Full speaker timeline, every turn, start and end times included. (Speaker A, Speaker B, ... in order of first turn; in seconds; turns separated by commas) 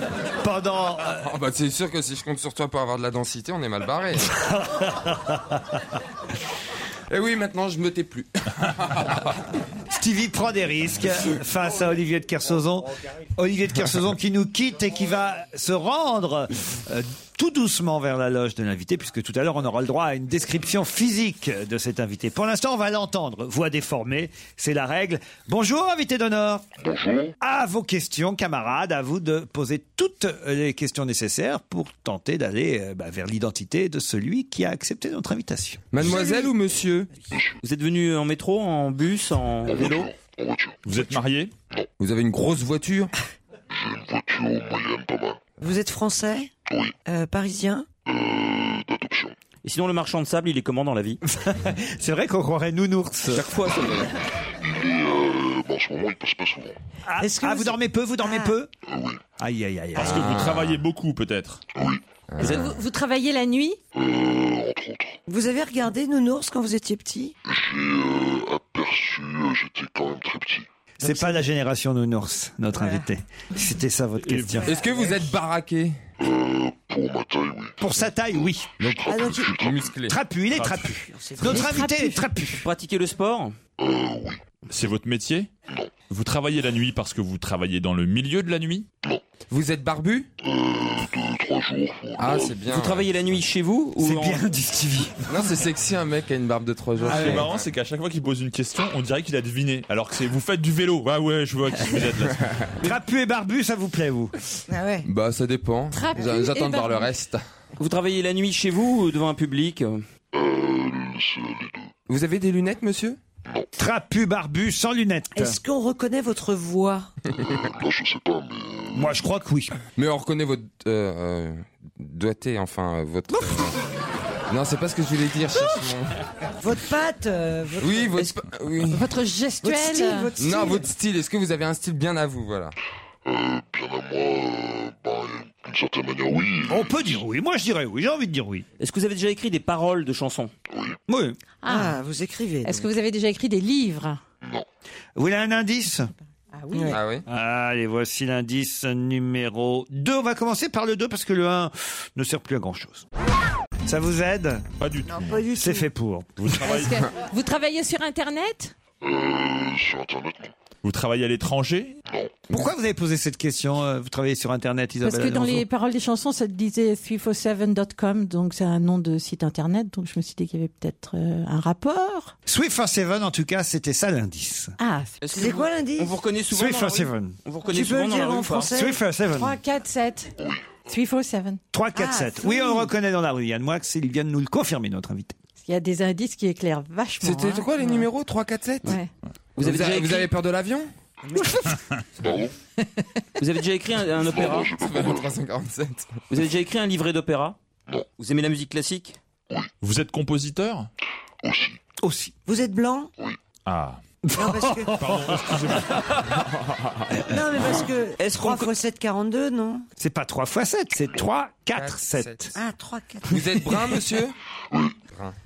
Speaker A: 0.4-1.2, Speaker B: 1.2-4.3, Speaker A: 4.6-5.4, Speaker B: 7.1-9.3, Speaker A: 9.9-26.6, Speaker C: 26.8-27.3, Speaker A: 27.4-36.0, Speaker B: 35.9-37.1, Speaker D: 36.0-36.5, Speaker C: 37.3-37.6, Speaker E: 37.6-40.1, Speaker C: 39.6-41.1, Speaker F: 40.8-41.5, Speaker B: 42.0-43.1, Speaker C: 43.7-45.4, Speaker D: 45.6-46.5, Speaker C: 46.7-46.9, Speaker D: 47.0-47.9, Speaker C: 48.0-49.3, Speaker E: 49.6-51.2, Speaker A: 51.3-53.5, Speaker E: 53.3-54.1, Speaker B: 53.8-54.1, Speaker C: 54.6-56.7, Speaker A: 57.1-58.7, Speaker D: 57.2-58.6, Speaker C: 58.9-59.2, Speaker A: 59.4-60.5, Speaker F: 60.0-61.6, Speaker B: 60.0-60.8, Speaker C: 61.7-62.0, Speaker B: 62.3-62.6, Speaker G: 62.4-63.8, Speaker E: 62.4-62.7, Speaker C: 63.9-65.2, Speaker D: 65.3-67.3, Speaker C: 67.5-70.7, Speaker A: 71.0-74.7, Speaker D: 71.0-71.5, Speaker D: 72.7-73.1, Speaker F: 74.2-74.6, Speaker D: 74.6-75.3, Speaker B: 74.6-76.0, Speaker C: 76.2-80.0, Speaker A: 77.8-79.4, Speaker D: 79.1-79.5, Speaker B: 79.5-80.2, Speaker A: 80.1-82.7, Speaker F: 80.5-80.9, Speaker D: 81.0-81.9, Speaker G: 81.5-82.3, Speaker E: 82.4-83.5, Speaker C: 83.8-84.4, Speaker F: 84.7-85.5, Speaker F: 86.1-88.9, Speaker B: 89.5-90.3, Speaker C: 90.4-92.6, Speaker B: 92.2-93.1, Speaker E: 92.7-94.4, Speaker A: 94.0-95.3, Speaker B: 95.3-97.6, Speaker F: 97.0-102.5, Speaker A: 102.8-104.3, Speaker D: 104.7-105.1, Speaker B: 105.0-107.4, Speaker G: 105.9-107.1, Speaker E: 107.8-110.0, Speaker C: 110.3-111.9, Speaker B: 112.1-113.2, Speaker A: 113.8-115.6, Speaker D: 115.3-117.1, Speaker C: 117.3-119.2, Speaker A: 118.9-119.8, Speaker B: 120.0-123.8, Speaker B: 124.5-126.1, Speaker D: 126.6-128.4, Speaker B: 127.8-129.1, Speaker G: 128.8-130.3, Speaker D: 129.6-130.9, Speaker B: 130.4-132.7, Speaker C: 133.2-137.2, Speaker A: 136.7-138.7, Speaker E: 138.8-140.5, Speaker C: 140.7-141.0, Speaker A: 141.1-141.4, Speaker G: 141.6-142.0, Speaker D: 141.7-142.8, Speaker G: 142.6-144.2, Speaker A: 145.2-146.1, Speaker G: 146.5-147.0, Speaker D: 146.7-147.0, Speaker B: 146.9-147.2, Speaker A: 147.3-153.0, Speaker A: 153.8-154.7, Speaker F: 154.8-155.4, Speaker D: 155.1-155.9, Speaker A: 155.6-156.4, Speaker F: 156.4-157.1, Speaker G: 156.6-158.7, Speaker C: 159.0-160.5, Speaker F: 160.8-162.0, Speaker C: 162.1-162.4, Speaker A: 162.5-165.7, Speaker G: 165.0-172.3, Speaker A: 172.5-174.7, Speaker G: 174.8-175.2, Speaker E: 175.2-178.8, Speaker D: 175.3-176.1, Speaker A: 176.5-177.4, Speaker D: 177.7-179.0, Speaker A: 178.7-179.6, Speaker G: 179.3-180.3, Speaker C: 180.4-180.8, Speaker G: 180.8-181.6, Speaker A: 181.7-185.4, Speaker D: 181.9-182.9, Speaker G: 185.6-188.1, Speaker B: 187.2-189.0, Speaker G: 188.8-189.1, Speaker E: 189.6-190.3, Speaker B: 189.6-190.9, Speaker C: 192.2-192.5, Speaker E: 193.4-194.8, Speaker C: 194.1-195.4, Speaker B: 194.8-196.1, Speaker E: 196.3-197.6, Speaker E: 198.2-199.2, Speaker F: 199.8-200.9, Speaker C: 201.4-201.8, Speaker A: 202.0-202.3, Speaker D: 202.4-203.1, Speaker F: 203.7-204.0, Speaker A: 204.2-205.8, Speaker D: 204.3-205.2, Speaker F: 204.9-206.2, Speaker D: 207.2-209.8, Speaker E: 208.2-208.7, Speaker A: 210.0-212.5, Speaker B: 211.8-212.5, Speaker D: 212.5-214.0, Speaker B: 213.2-214.3, Speaker C: 214.7-215.0